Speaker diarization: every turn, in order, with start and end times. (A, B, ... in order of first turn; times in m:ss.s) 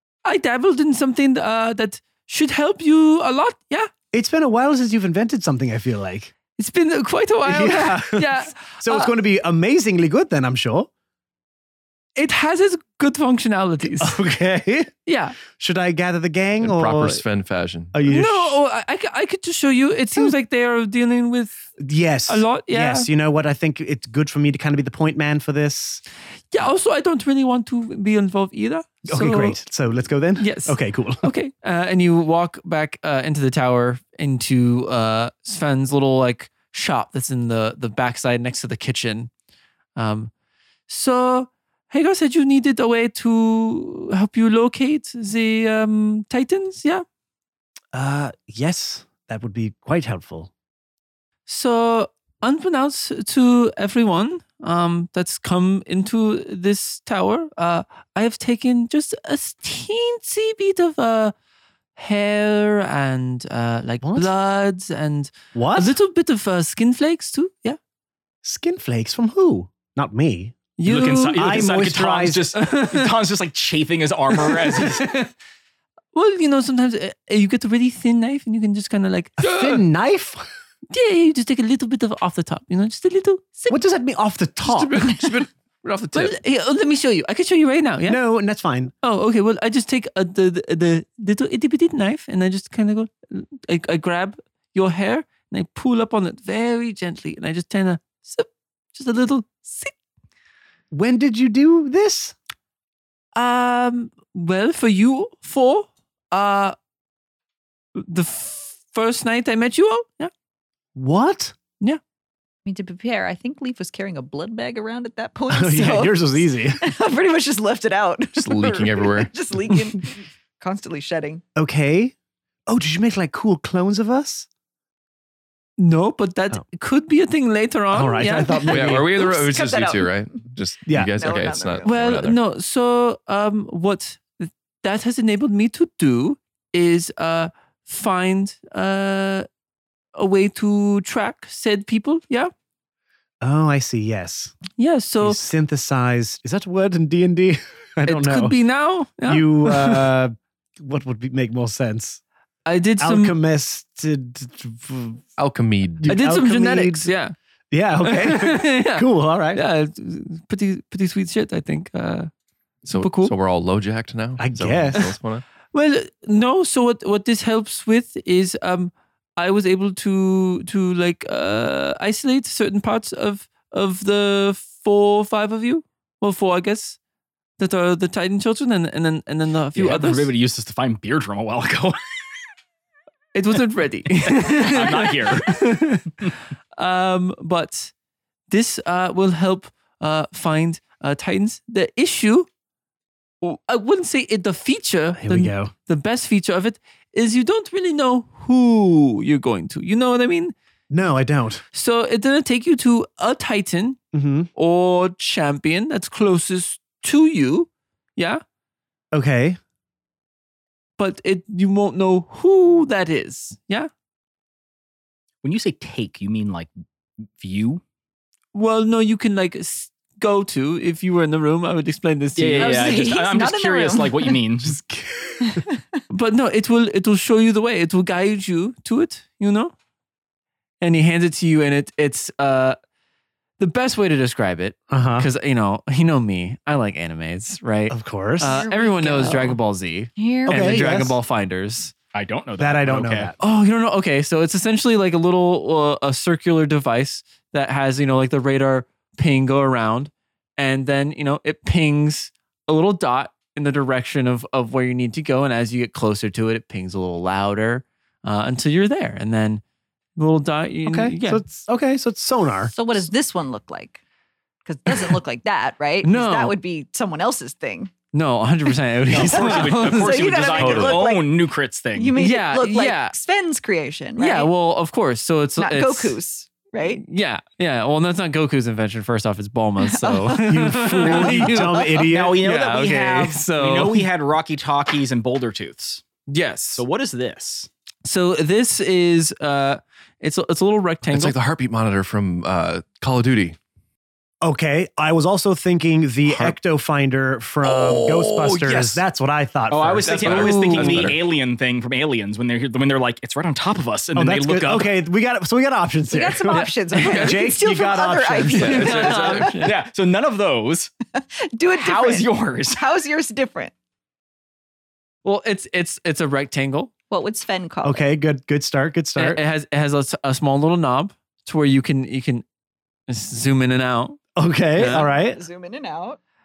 0:00.2-0:03.9 A
0:04.1-0:06.3 B
0:06.6-0:09.1 A
0:07.4-0:10.9 B
0:12.2-0:14.2 A
0:14.0-0:14.9 B
0:15.0-0:15.4 A
0:15.4-0:17.2 B
0:16.6-0:17.9 C
0:17.9-0:18.6 B
0:18.1-0:21.7 A
0:21.8-0:26.0 B
0:22.3-0:23.1 A
0:26.5-0:29.6 A
0:29.1-0:31.3 B
0:30.4-0:39.3 A
0:40.0-0:40.3 A
0:40.9-0:47.0 A
0:47.9-0:50.5 B
0:51.5-1:01.3 A
1:02.0-1:07.8 A
1:04.0-1:04.3 B
1:05.5-1:06.0 B
1:08.4-1:10.6 B
1:10.8-1:11.7 A
1:10.8-1:15.1 D
1:11.3-1:12.5 B
1:12.6-1:13.1 A
1:14.3-1:15.3 A
1:16.1-1:19.4 A
1:19.4-1:19.8 C
1:19.4-1:20.4 B
1:20.9-1:23.8 A
1:23.7-1:25.1 B
1:24.6-1:26.3 C
1:26.1-1:28.2 A
1:28.0-1:28.9 B
1:29.0-1:39.9 A
1:40.9-1:42.4 B
1:43.3-1:46.7 A
1:48.0-1:50.3 A
1:50.9-1:51.5 B
1:52.6-2:01.4 E
1:55.5-1:56.8 B
1:58.3-1:59.3 C
2:01.6-2:02.1 B
2:02.7-2:04.5 B
2:05.8-2:08.7 A
2:07.9-2:09.1 B
2:08.5-2:10.4 E
2:08.7-2:12.4 C
2:10.9-2:11.1 B
2:11.0-2:12.0 E
2:11.8-2:19.4 A
2:20.2-2:22.5 A
2:23.4-2:24.6 B
2:24.8-2:25.4 A
2:25.2-2:28.6 B
2:28.1-2:30.1 A
2:29.2-2:32.2 B
2:32.6-2:33.3 A
2:33.0-2:35.2 B
2:35.4-2:36.1 C
2:36.0-2:37.1 B
2:36.1-2:37.3 A
2:37.7-2:39.6 B
2:38.0-2:42.3 A
2:42.8-2:45.4 C
2:42.9-2:43.3 A
2:44.4-2:45.1 B
2:45.7-2:57.0 A
2:57.6-3:00.3 A
2:59.7-3:02.0 D
3:03.3-3:07.9 A
3:04.2-3:05.6 D
3:08.5-3:12.5 A
3:13.4-3:20.5 A
3:15.2-3:15.7 B
3:20.9-3:21.6 B
3:21.7-3:24.0 A
3:24.1-3:24.5 B
3:24.6-3:28.4 A
3:29.1-3:29.6 B
3:31.0-3:33.9 A
3:35.4-3:36.7 D
3:37.4-3:37.8 D
3:38.5-3:43.2 A
3:42.4-3:44.8 D
3:42.6-3:44.4 E
3:44.6-3:45.6 B
3:45.4-3:46.0 E
3:46.1-3:49.7 A
3:50.8-3:52.8 A
3:53.6-4:01.9 A
3:54.9-3:55.3 B
3:57.9-3:58.6 B
3:58.4-3:59.6 E
4:00.2-4:00.8 E
4:00.5-4:01.2 B
4:02.1-4:03.3 D
4:02.6-4:03.3 B
4:03.4-4:19.6 A
4:20.2-4:21.4 A
4:20.8-4:22.7 B
4:22.7-4:24.0 E
4:24.6-4:27.9 E
4:26.0-4:26.6 A
4:28.1-4:30.4 A
4:29.1-4:32.2 D
4:29.2-4:31.3 E
4:30.5-4:31.0 C
4:31.9-4:34.5 E
4:32.2-4:33.1 A
4:34.2-4:36.2 A
4:35.6-4:37.0 E
4:36.8-4:44.1 A
4:39.8-4:42.0 E
4:40.5-4:42.4 B
4:42.1-4:46.0 D
4:46.3-4:46.8 A
4:46.8-4:47.7 D
4:48.0-4:51.3 A
4:51.0-4:53.6 C
4:54.4-5:00.4 B
4:56.2-4:56.5 C
4:57.6-4:59.0 C
4:59.7-5:05.0 D
5:00.0-5:01.2 C
5:00.2-5:01.2 A
5:04.2-5:09.0 B
5:06.1-5:09.6 E
5:06.5-5:07.4 A
5:08.5-5:09.7 A
5:08.5-5:09.6 C
5:09.1-5:10.9 D
5:11.2-5:13.7 E
5:11.7-5:12.8 D
5:15.2-5:16.9 A
5:17.1-5:18.0 E
5:17.8-5:19.4 B
5:19.2-5:22.4 A
5:23.1-5:24.2 A
5:24.4-5:25.4 B
5:24.8-5:25.1 A
5:25.2-5:26.2 E